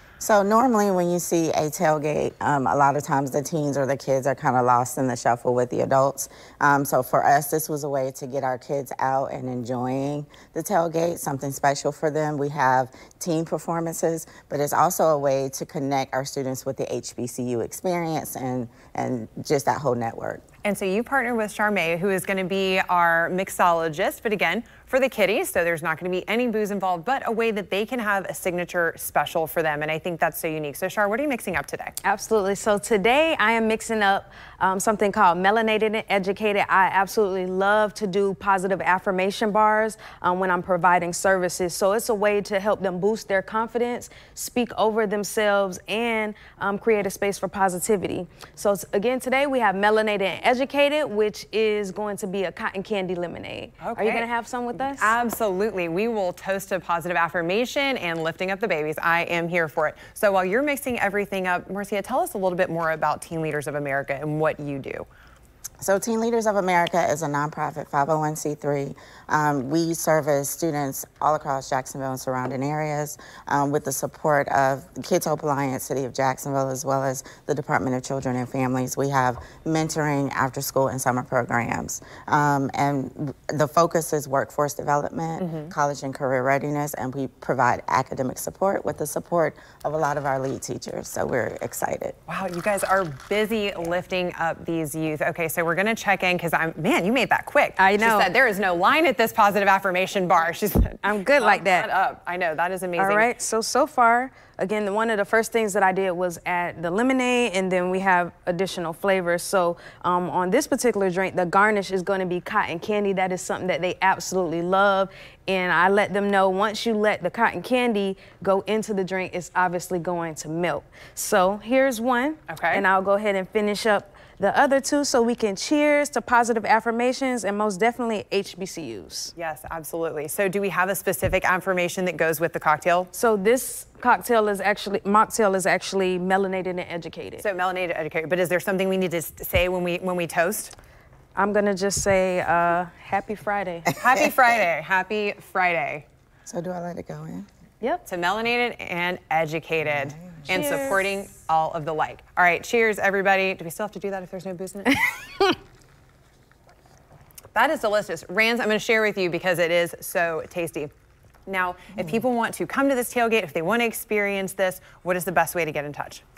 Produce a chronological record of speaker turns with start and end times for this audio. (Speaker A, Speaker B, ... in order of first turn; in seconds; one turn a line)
Speaker A: 0.2-20.4
Speaker B: 20.6-32.0
Speaker C: 32.0-55.1
Speaker B: 53.8-65.1
Speaker A: 65.8-92.2
Speaker B: 85.4-85.7
Speaker B: 92.3-103.3
Speaker C: 97.8-98.3
Speaker C: 101.0-101.9
Speaker C: 103.0-129.3
Speaker B: 122.5-122.8
Speaker B: 129.4-133.1
Speaker C: 133.1-137.4
Speaker B: 137.4-140.7
Speaker C: 141.4-143.9
Speaker B: 143.9-146.1
Speaker A: 146.5-147.5
Speaker B: 148.1-155.1
Speaker A: 150.1-150.5
Speaker C: 150.5-151.0
Speaker B: 157.5-160.9
Speaker B: 161.5-166.2